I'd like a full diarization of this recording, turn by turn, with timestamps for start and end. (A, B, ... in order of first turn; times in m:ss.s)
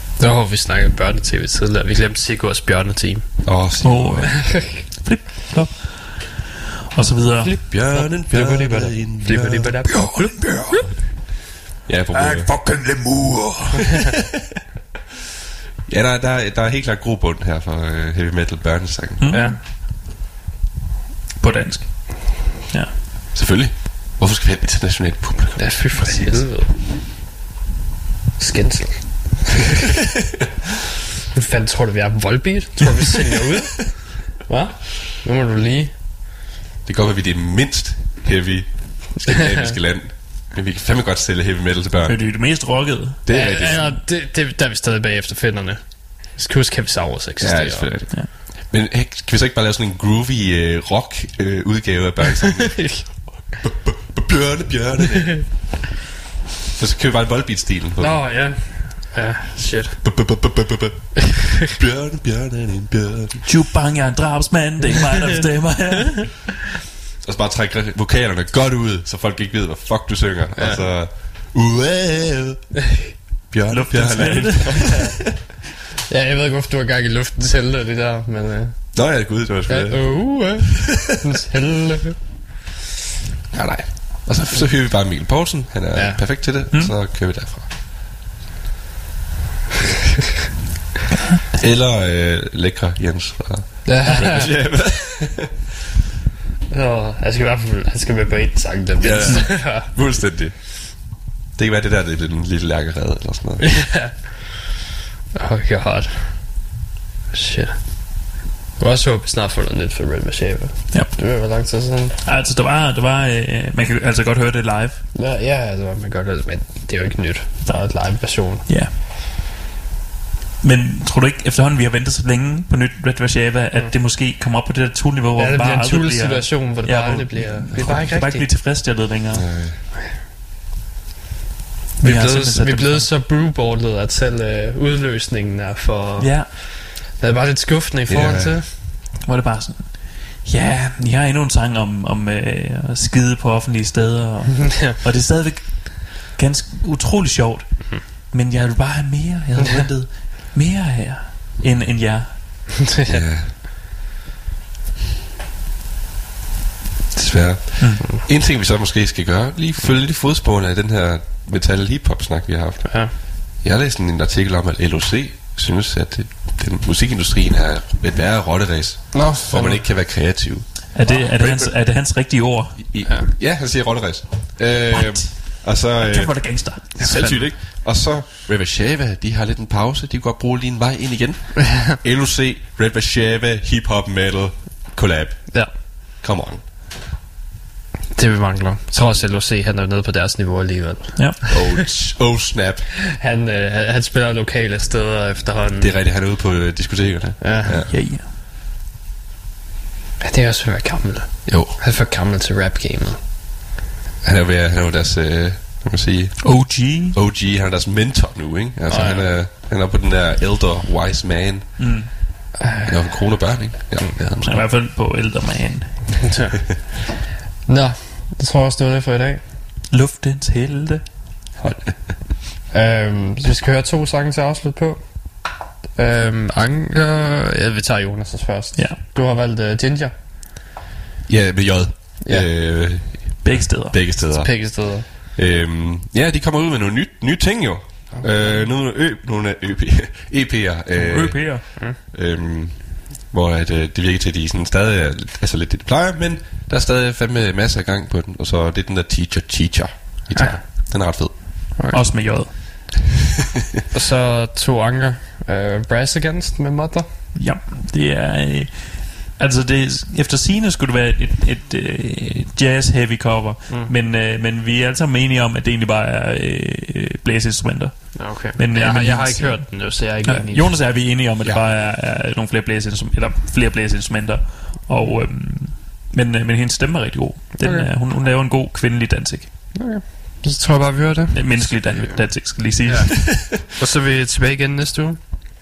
0:00.2-0:03.6 A
0:03.4-0:04.5 B
0:03.8-0:09.2 C
0:07.5-0:09.9 B
0:09.2-0:10.3 A
0:09.8-0:11.3 C
0:11.9-0:12.6 B
0:12.1-0:14.1 C
0:15.9-0:19.6 B
0:19.2-0:19.6 C
0:19.3-0:19.6 A
0:21.4-0:22.9 C
0:23.3-0:26.3 B
0:25.6-0:26.7 A
0:28.4-0:29.4 A
0:31.4-0:35.9 A
0:36.8-0:42.5 B
0:39.4-0:39.7 A
0:42.1-0:43.2 C
0:43.2-0:43.9 B
0:43.3-0:47.9 A
0:47.4-0:55.8 B
0:52.8-0:53.0 A
0:56.8-0:58.2 B
0:58.0-1:00.6 A
1:00.0-1:03.5 B
1:03.5-1:06.5 C
1:07.2-1:12.8 B
1:10.6-1:10.9 A
1:13.5-1:15.2 B
1:13.7-1:14.9 C
1:16.1-1:22.2 A
1:18.9-1:20.9 B
1:23.5-1:27.7 B
1:26.0-1:26.2 A
1:31.1-1:31.4 C
1:31.6-1:35.5 B
1:33.8-1:34.5 A
1:36.7-1:39.9 A
1:39.0-1:43.9 B
1:43.6-1:44.3 A
1:45.4-1:46.8 A
1:47.3-1:52.2 A
1:50.9-1:51.3 C
1:52.2-1:55.0 C
1:55.2-1:58.7 A
1:57.7-1:58.9 C
2:00.6-2:09.6 C
2:05.4-2:08.5 A
2:07.7-2:08.1 B
2:09.3-2:09.8 B
2:12.0-2:13.1 C
2:12.0-2:18.7 A
2:16.2-2:16.5 C
2:18.1-2:18.7 B
2:19.2-2:32.7 C
2:29.6-2:29.9 A
2:32.9-2:33.2 A
2:33.1-2:33.5 B
2:37.2-2:51.7 B
2:42.8-2:43.1 A
2:49.1-2:49.9 A
2:50.9-2:52.9 C
2:51.0-2:51.7 A
2:52.8-3:06.6 B
2:54.9-2:57.5 C
3:08.2-3:11.6 A
3:11.5-3:12.9 B
3:13.2-3:16.0 A
3:15.8-3:18.0 B
3:17.4-3:17.8 A
3:17.9-3:18.3 C
3:20.2-3:23.2 A
3:21.5-3:21.8 B
3:24.2-3:32.2 B
3:26.4-3:27.2 C
3:28.9-3:29.3 A
3:31.8-3:32.5 C
3:32.6-3:34.4 A
3:32.8-3:34.6 B
3:34.4-3:36.4 C
3:36.3-3:36.8 A
3:37.7-3:39.4 A
3:39.9-3:41.2 C
3:41.6-3:50.1 A
3:51.3-4:11.4 B
3:53.4-3:54.3 C
3:54.4-3:55.1 A
3:58.1-3:58.6 A
4:01.0-4:01.7 C
4:10.4-4:11.2 A
4:11.8-4:12.4 A
4:11.9-4:12.9 C
4:13.9-4:17.1 A
4:17.4-4:39.7 C
4:28.2-4:31.6 A
4:37.6-4:37.9 A
4:39.8-4:45.2 A
4:41.3-4:43.3 C